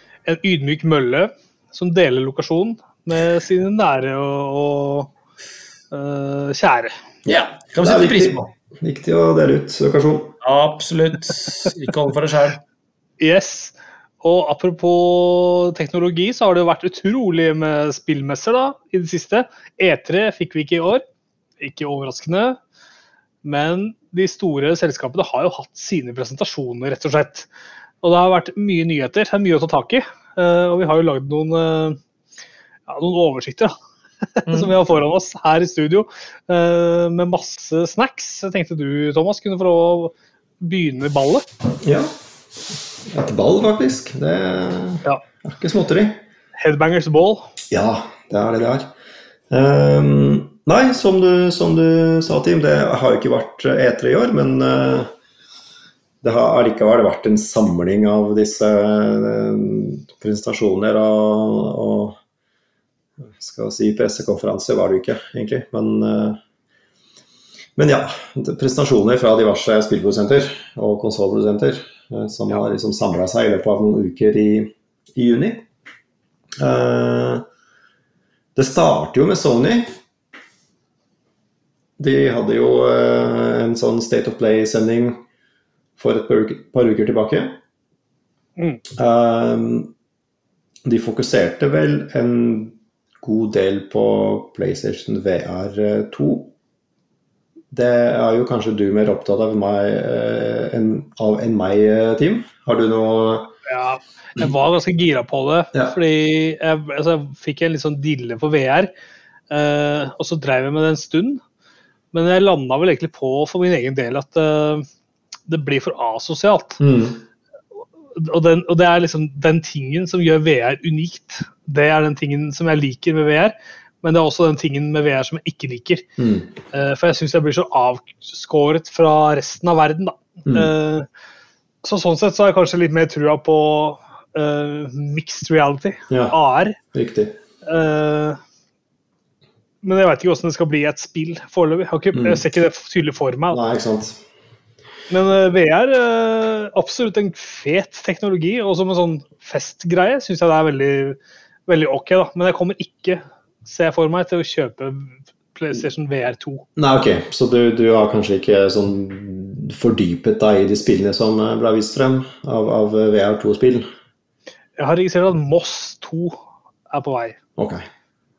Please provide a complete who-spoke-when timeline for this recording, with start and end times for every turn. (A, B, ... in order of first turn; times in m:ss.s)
0:00.2-0:05.1 A
0:05.9-0:06.9 A
0:07.2-0:08.4 B
0:07.8-0:10.3 C
0:10.4-0:12.6 B
0:13.2-0:21.0 A
0:21.6-0:22.6 A
0:23.4-0:27.5 A
0:28.0-0:32.0 A
0:32.9-0:33.8 A
0:34.3-0:41.4 A
0:41.8-0:42.1 C
0:43.0-0:46.2 C
0:46.6-0:47.5 A
0:47.7-0:48.9 C
0:49.5-0:55.1 C
0:56.2-1:02.2 C
1:03.2-1:06.4 C
1:07.8-1:15.6 C
1:16.6-1:17.4 C
1:18.6-1:19.9 C
1:22.0-1:25.2 C
1:26.0-1:27.6 C
1:28.9-1:29.9 C
1:30.8-1:36.5 C
1:37.7-1:43.5 C
1:43.7-1:48.9 A
1:49.5-1:51.4 A
1:52.1-1:54.8 A
1:55.5-1:56.8 A
1:56.8-1:57.2 C
1:58.1-2:06.0 A
2:06.2-2:06.5 C
2:06.7-2:11.1 A
2:10.4-2:10.7 C
2:11.8-2:16.8 A
2:16.1-2:16.4 C
2:16.9-2:17.3 C
2:17.6-2:18.4 A
2:19.8-2:23.6 A
2:22.1-2:22.4 C
2:23.5-2:24.2 C
2:25.1-2:36.6 A
2:36.8-2:43.9 C
2:44.8-2:47.4 A
2:47.6-2:47.8 C